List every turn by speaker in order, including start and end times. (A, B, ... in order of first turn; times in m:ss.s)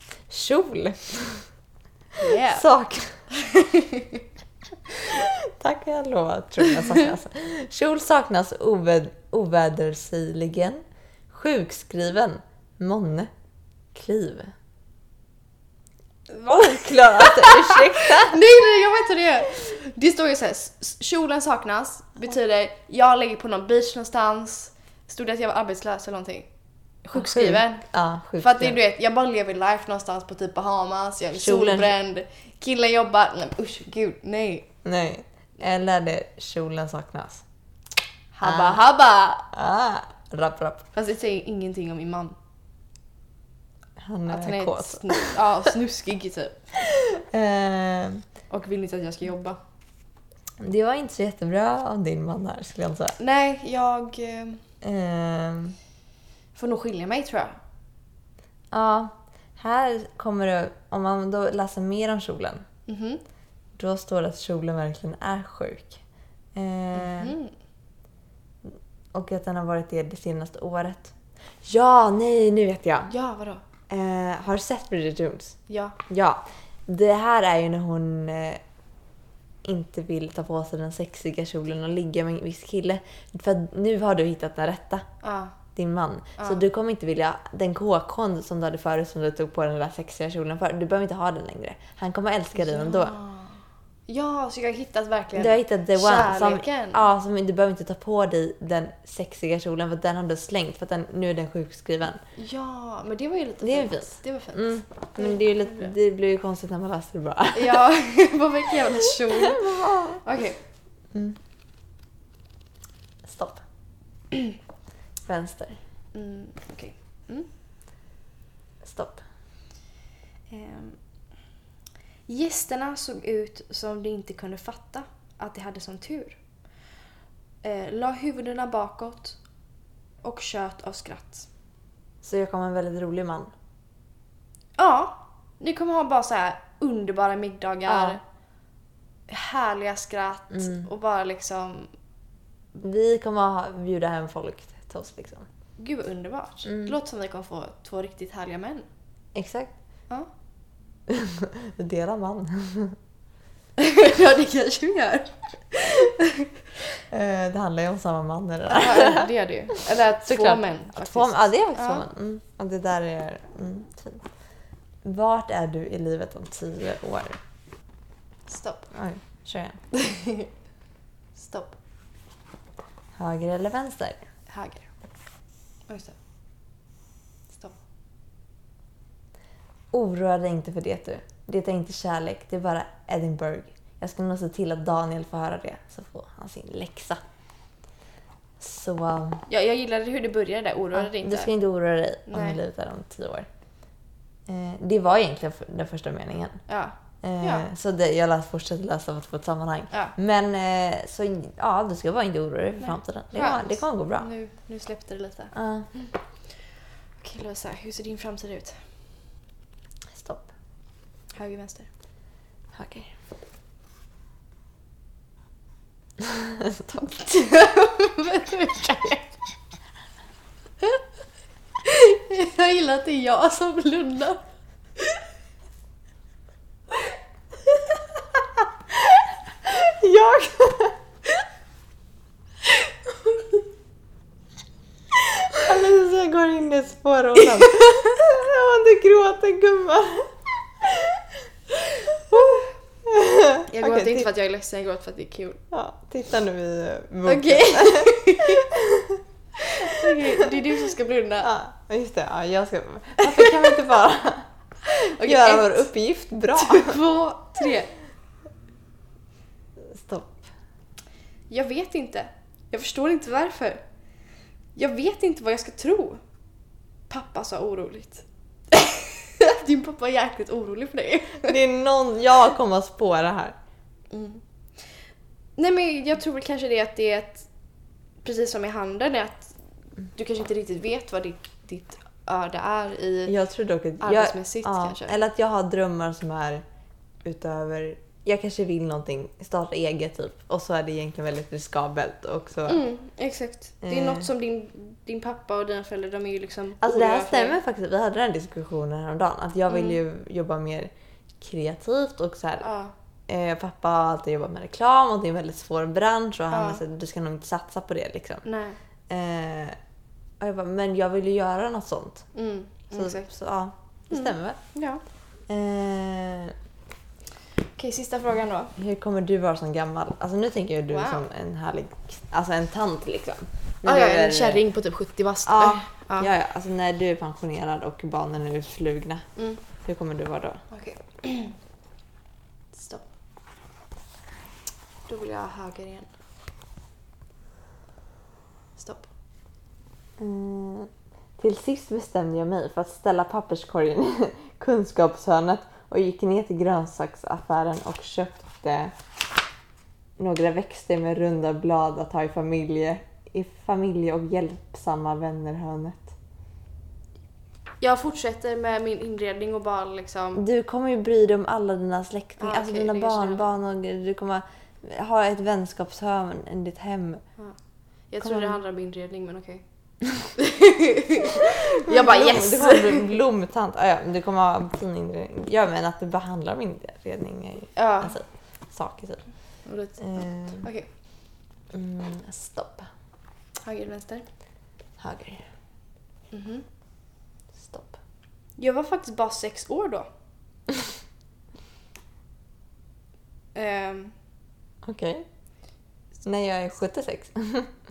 0:00.3-0:01.4 A
0:02.2-0:02.7 B
0:02.5-0:03.2 A
0:03.3-0:04.2 B
0:04.9-0:13.3 A
0:06.7-0:07.0 B
0:13.9-0:14.5 A
0:16.3-0:26.5 B
0:16.5-0:18.4 A
0:27.0-0:27.9 B
0:27.1-0:28.8 A
0:28.4-0:34.7 B
0:31.4-0:32.0 A
0:34.8-0:37.4 A
0:38.3-0:39.5 B
0:38.4-0:38.8 A
0:39.5-0:40.9 A
0:40.9-0:42.4 B
0:44.0-0:45.4 A
0:44.3-0:46.6 B
0:47.0-0:48.2 A
0:48.5-0:49.6 B
0:50.6-0:53.2 A
0:53.2-0:54.6 B
0:54.8-0:55.8 A
0:56.6-0:57.6 B
0:58.7-1:02.6 A
1:02.9-1:03.2 B
1:03.8-1:06.0 A
1:06.5-1:07.4 A
1:06.9-1:07.5 B
1:08.6-1:13.1 A
1:13.1-1:13.6 B
1:13.9-1:18.6 A
1:15.7-1:16.0 B
1:19.6-1:25.1 A
1:25.2-1:25.6 B
1:25.8-1:33.2 A
1:32.6-1:37.0 B
1:35.4-1:42.2 A
1:42.4-1:45.9 B
1:43.6-1:47.9 A
1:47.5-1:50.6 B
1:49.2-1:50.2 A
1:51.1-1:51.4 A
1:53.2-1:53.6 A
1:55.3-1:55.8 A
1:56.1-1:57.5 B
1:58.8-1:59.2 A
2:00.5-2:01.0 B
2:02.3-2:06.4 B
2:07.6-2:09.4 B
2:10.2-2:11.5 B
2:12.2-2:13.5 A
2:14.8-2:18.2 B
2:17.9-2:18.2 A
2:19.3-2:21.9 B
2:20.5-2:20.9 A
2:22.8-2:25.5 A
2:25.8-2:28.9 B
2:26.7-2:27.0 A
2:29.4-2:29.7 A
2:31.1-2:33.0 A
2:33.8-2:36.5 B
2:37.1-2:39.3 A
2:38.7-2:42.0 B
2:40.2-2:44.2 A
2:45.0-2:47.4 A
2:48.5-2:48.9 B
2:48.9-2:49.8 A
2:49.9-2:50.5 B
2:51.4-2:51.8 B
2:53.2-2:54.2 A
2:54.5-2:54.9 B
2:55.9-2:56.2 B
2:59.9-3:07.2 A
3:08.6-3:09.4 A
3:09.5-3:11.5 B
3:11.0-3:13.5 A
3:12.3-3:12.6 B
3:14.5-3:16.6 A
3:16.7-3:17.7 B
3:17.2-3:24.3 A
3:19.9-3:20.2 B
3:22.8-3:26.1 B
3:25.5-3:25.9 A
3:27.2-3:28.8 B
3:30.1-3:30.5 A
3:31.3-3:31.9 B
3:32.7-3:33.1 A
3:36.2-3:37.3 A
3:37.2-3:39.3 B
3:41.8-3:44.4 B
3:49.7-3:51.0 A
3:55.5-4:00.4 A
3:57.5-3:58.2 B
4:02.3-4:02.7 B
4:02.3-4:04.3 A
4:03.7-4:05.6 B
4:05.7-4:09.2 A
4:07.3-4:08.7 B
4:09.6-4:11.5 B
4:10.0-4:10.5 A
4:11.4-4:14.5 A
4:13.2-4:13.7 B
4:14.8-4:15.9 B
4:15.2-4:17.0 A
4:16.5-4:17.9 B
4:19.9-4:20.4 A
4:21.5-4:23.8 B
4:24.8-4:26.2 B
4:27.1-4:31.6 B
4:31.4-4:33.6 A
4:34.1-4:34.4 B
4:35.6-4:37.5 B
4:38.2-4:39.5 B
4:40.2-4:43.3 B
4:43.3-4:46.6 A
4:44.0-4:45.2 B
4:47.2-4:52.8 A
4:52.7-4:57.6 B
4:53.8-4:54.3 A
4:56.8-5:02.7 A
4:59.7-5:00.0 B
5:02.6-5:02.9 B
5:03.3-5:08.4 A
5:06.5-5:06.8 B
5:08.4-5:08.8 B
5:09.1-5:09.8 A
5:10.4-5:12.3 A
5:12.3-5:13.3 B
5:12.9-5:14.6 A
5:14.1-5:15.0 B
5:15.5-5:16.6 A
5:17.8-5:18.7 B
5:18.8-5:24.6 A
5:20.9-5:21.2 B
5:23.8-5:26.3 B
5:25.5-5:29.3 A
5:29.8-5:30.6 A
5:30.7-5:31.6 B
5:32.7-5:33.0 B
5:35.1-5:36.1 B
5:38.8-5:39.1 B
5:40.2-5:48.9 A
5:50.2-5:56.2 A
5:57.8-6:00.4 B
6:00.4-6:07.2 A
6:02.4-6:03.4 B
6:08.1-6:09.6 B
6:08.2-6:08.6 A
6:10.4-6:13.2 B
6:11.5-6:19.2 A
6:17.8-6:18.2 B
6:19.6-6:20.9 B
6:20.0-6:20.7 A
6:21.7-6:22.9 A
6:23.6-6:24.3 B
6:25.0-6:25.4 A
6:26.3-6:26.6 B
6:27.6-6:28.0 A
6:28.6-6:30.1 B
6:33.6-6:34.2 B
6:34.8-6:35.3 A
6:36.2-6:37.7 A